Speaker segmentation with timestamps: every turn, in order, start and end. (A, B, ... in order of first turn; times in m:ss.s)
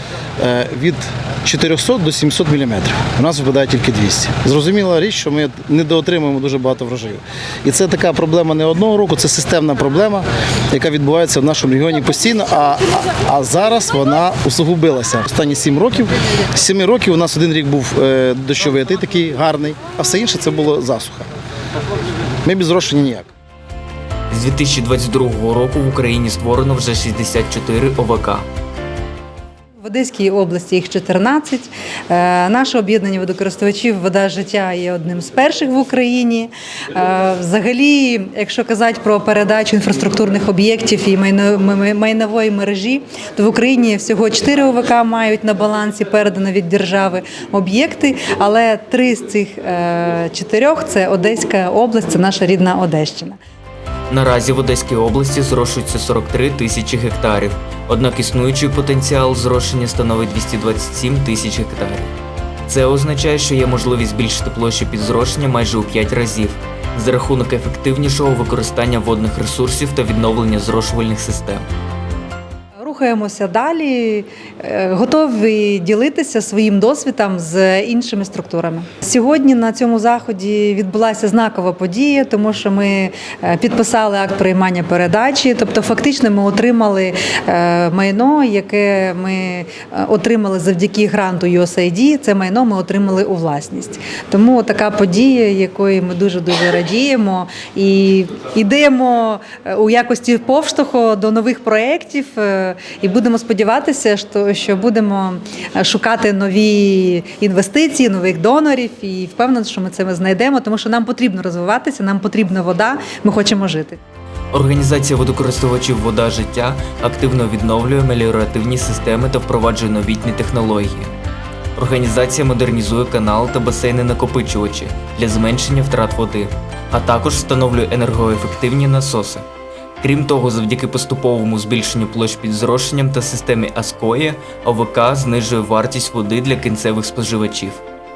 0:00.4-0:21.3 A
0:22.4-0:23.3 A
0:24.3-0:28.4 B
0:29.8-0:53.4 C
0:54.1-1:02.1 B
1:02.7-1:11.7 B
1:12.8-1:54.0 C
1:54.5-2:01.1 B
2:01.8-2:09.4 B
2:10.0-2:17.8 B